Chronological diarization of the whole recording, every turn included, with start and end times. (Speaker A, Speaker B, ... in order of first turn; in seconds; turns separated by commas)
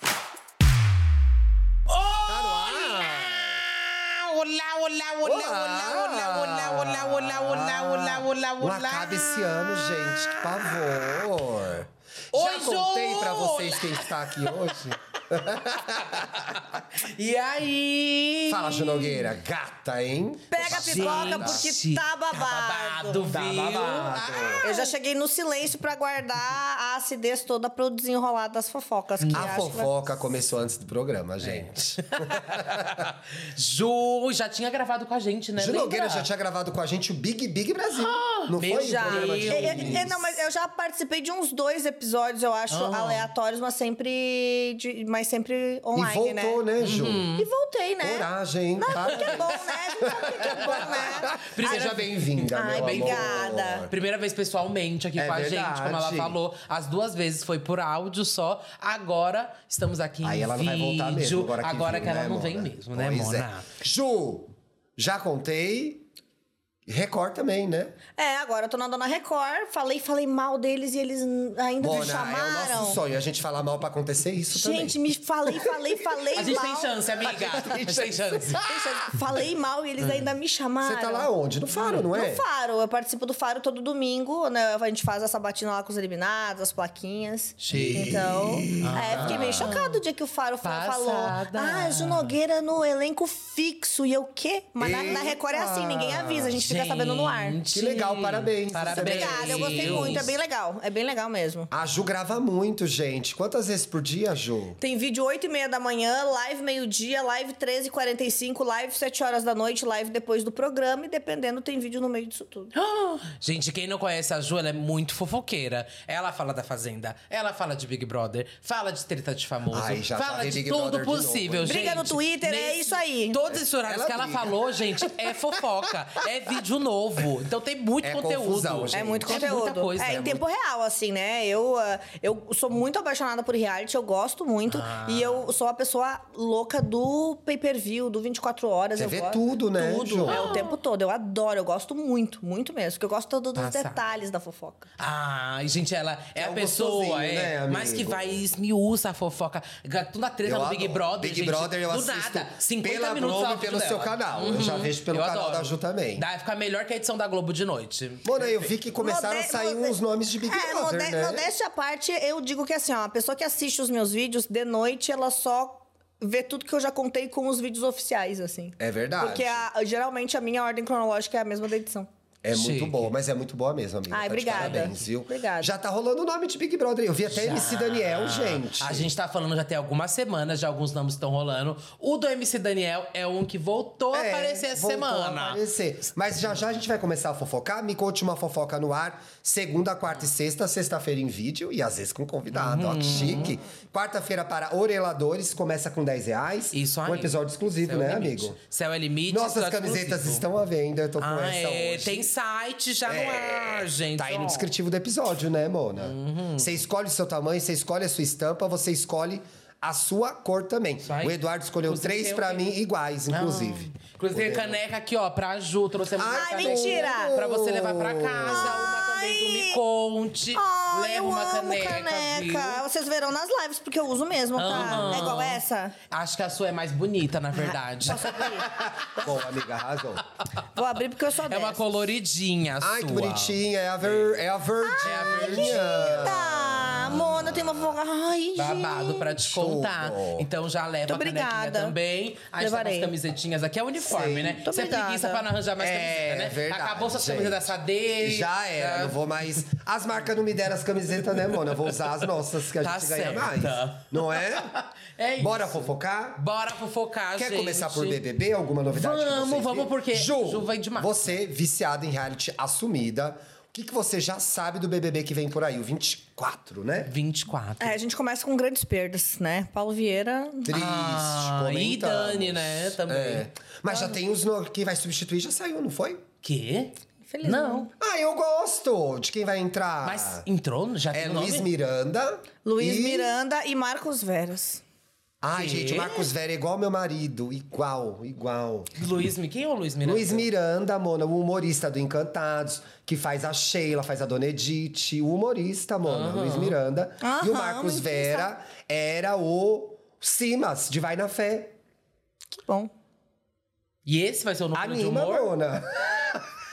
Speaker A: 1.9-11.2, Speaker B: 2.3-3.6, Speaker B: 5.2-16.6, Speaker A: 12.3-15.0, Speaker A: 16.0-19.2, Speaker B: 18.5-21.7, Speaker C: 20.5-23.3, Speaker A: 20.6-24.9, Speaker B: 23.3-24.7, Speaker C: 24.6-29.9, Speaker A: 29.2-29.7, Speaker B: 29.3-33.1, Speaker A: 31.4-36.3, Speaker B: 35.6-40.2, Speaker A: 37.9-40.2, Speaker C: 38.7-46.6, Speaker A: 42.7-43.3, Speaker B: 46.0-47.3, Speaker A: 46.8-47.5, Speaker C: 47.4-52.0, Speaker B: 48.0-53.9, Speaker A: 49.0-49.3, Speaker A: 50.1-63.7, Speaker C: 52.5-53.9, Speaker B: 55.2-56.4, Speaker B: 60.2-66.1, Speaker B: 66.9-68.0, Speaker C: 68.2-73.0, Speaker B: 71.8-75.0, Speaker C: 74.5-77.0, Speaker B: 75.5-76.3, Speaker A: 76.3-79.1, Speaker B: 77.2-78.6, Speaker C: 78.7-81.3, Speaker B: 80.8-82.4, Speaker A: 81.8-82.0, Speaker C: 82.1-97.6, Speaker A: 87.6-88.2, Speaker B: 87.7-89.8, Speaker A: 88.8-90.0, Speaker A: 90.6-92.3, Speaker B: 94.8-96.6, Speaker A: 96.6-100.3, Speaker B: 97.7-100.3, Speaker C: 98.9-101.7, Speaker B: 101.7-104.8, Speaker C: 104.8-112.7, Speaker A: 112.7-130.4, Speaker B: 119.7-122.1, Speaker C: 121.7-123.4, Speaker B: 123.5-125.2, Speaker B: 128.0-129.5, Speaker C: 128.9-139.4, Speaker B: 130.1-130.4, Speaker A: 134.7-135.5, Speaker B: 139.0-140.6, Speaker A: 139.8-140.8, Speaker C: 140.2-144.8, Speaker A: 143.6-144.0, Speaker A: 145.0-158.7, Speaker B: 146.4-148.4, Speaker B: 150.4-156.3, Speaker B: 158.2-161.5, Speaker C: 159.0-172.1, Speaker B: 168.8-169.7, Speaker B: 172.4-179.1, Speaker A: 172.5-173.1, Speaker C: 174.1-175.7, Speaker A: 174.5-174.9, Speaker A: 177.3-185.6, Speaker B: 184.1-198.6, Speaker A: 192.5-193.6, Speaker A: 196.7-200.4, Speaker B: 199.3-202.3, Speaker A: 201.2-204.7, Speaker B: 203.1-214.8, Speaker A: 206.0-206.8, Speaker A: 211.0-212.7, Speaker A: 213.3-222.8, Speaker B: 216.2-218.9, Speaker C: 216.3-217.4, Speaker C: 218.5-219.8, Speaker C: 220.6-225.9, Speaker A: 224.6-229.3, Speaker B: 224.7-225.2, Speaker C: 227.6-228.7, Speaker B: 229.2-230.2, Speaker C: 230.8-231.8, Speaker A: 231.4-234.4, Speaker B: 232.8-238.0, Speaker C: 234.8-239.3, Speaker A: 235.0-237.2, Speaker A: 238.6-249.6, Speaker B: 239.4-240.5, Speaker C: 241.1-241.9, Speaker C: 242.6-243.1, Speaker B: 244.0-244.7, Speaker C: 244.6-245.4, Speaker B: 245.8-254.7, Speaker A: 251.2-252.2, Speaker A: 252.8-258.2, Speaker B: 255.4-256.4, Speaker B: 257.4-267.1, Speaker A: 258.9-261.3, Speaker A: 267.1-268.0, Speaker C: 267.8-270.7, Speaker B: 270.7-276.2, Speaker A: 270.7-274.2, Speaker A: 276.4-277.9, Speaker C: 277.3-277.9, Speaker B: 278.0-280.4, Speaker A: 280.0-281.7, Speaker B: 281.1-283.3, Speaker C: 282.6-284.8, Speaker B: 285.4-288.9, Speaker A: 285.5-286.3, Speaker A: 289.0-290.5, Speaker B: 290.0-301.8, Speaker A: 296.1-296.8, Speaker C: 297.2-298.5, Speaker C: 302.6-302.9, Speaker A: 304.1-305.5, Speaker B: 304.7-306.5